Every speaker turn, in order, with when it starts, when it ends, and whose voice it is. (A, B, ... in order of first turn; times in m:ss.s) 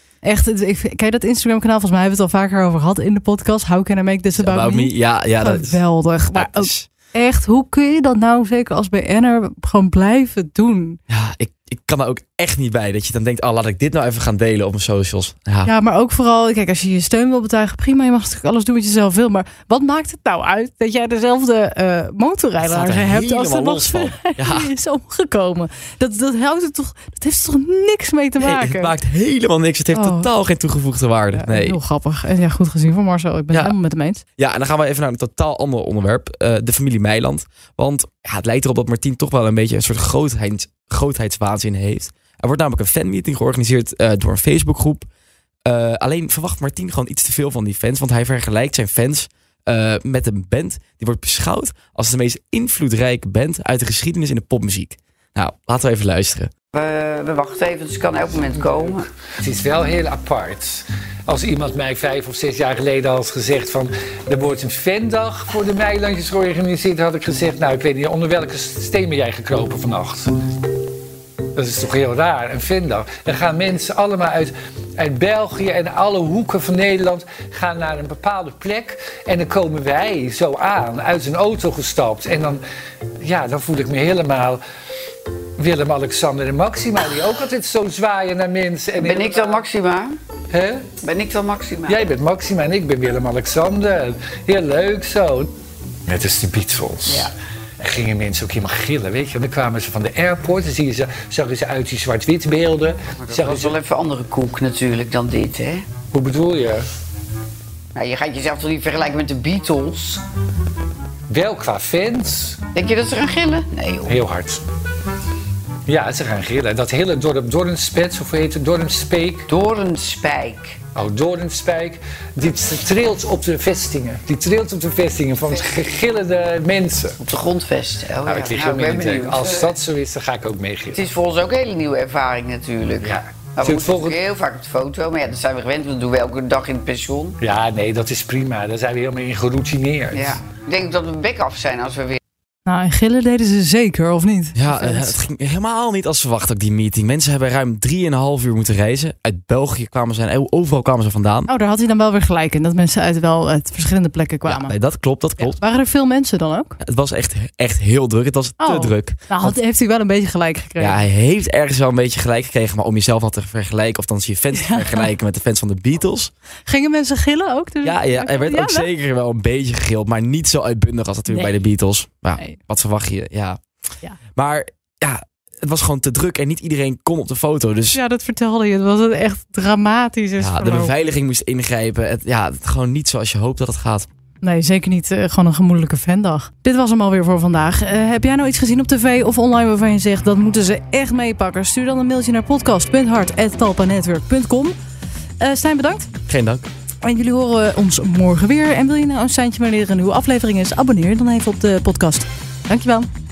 0:00.2-0:11.0 A
0:04.4-0:06.9 B
0:11.1-0:15.7 B
0:15.6-0:28.9 A
0:22.6-0:24.7 B
0:28.4-0:31.8 B
0:29.9-0:30.3 A
0:31.3-0:34.2 A
0:34.4-0:45.0 B
0:45.6-0:56.5 B
0:56.7-0:59.0 C
0:58.5-1:10.3 D
1:11.5-1:22.6 D
1:23.2-1:24.6 D
1:25.6-1:29.7 D
1:29.0-1:30.2 C
1:30.5-1:30.9 D
1:31.0-1:32.1 C
1:31.8-1:35.5 D
1:36.0-1:43.8 D
1:43.2-1:45.8 C
1:46.1-1:46.8 D
1:47.9-1:50.2 C
1:51.3-1:52.6 D
1:52.7-1:54.2 C
1:54.0-1:54.6 D
1:55.9-1:59.4 D
1:59.5-2:00.8 C
2:00.9-2:07.2 D
2:05.4-2:06.0 C
2:07.2-2:09.8 C
2:08.2-2:11.0 D
2:10.9-2:17.4 C
2:13.0-2:14.2 D
2:17.4-2:20.4 D
2:20.1-2:22.2 C
2:22.6-2:25.2 A
2:24.5-2:31.5 B
2:31.5-2:34.7 A
2:34.5-2:35.6 B
2:35.4-2:36.8 A
2:36.8-2:39.5 B
2:38.6-2:41.0 A
2:40.8-2:46.3 B
2:44.5-2:45.1 A
2:46.6-2:48.9 A
2:47.8-2:53.6 B
2:51.3-2:51.5 A
2:54.3-2:58.0 B
2:57.9-3:00.9 A
3:00.4-3:04.1 B
3:04.4-3:14.7 A
3:15.4-3:16.1 A
3:16.3-3:16.7 B
3:17.0-3:23.1 A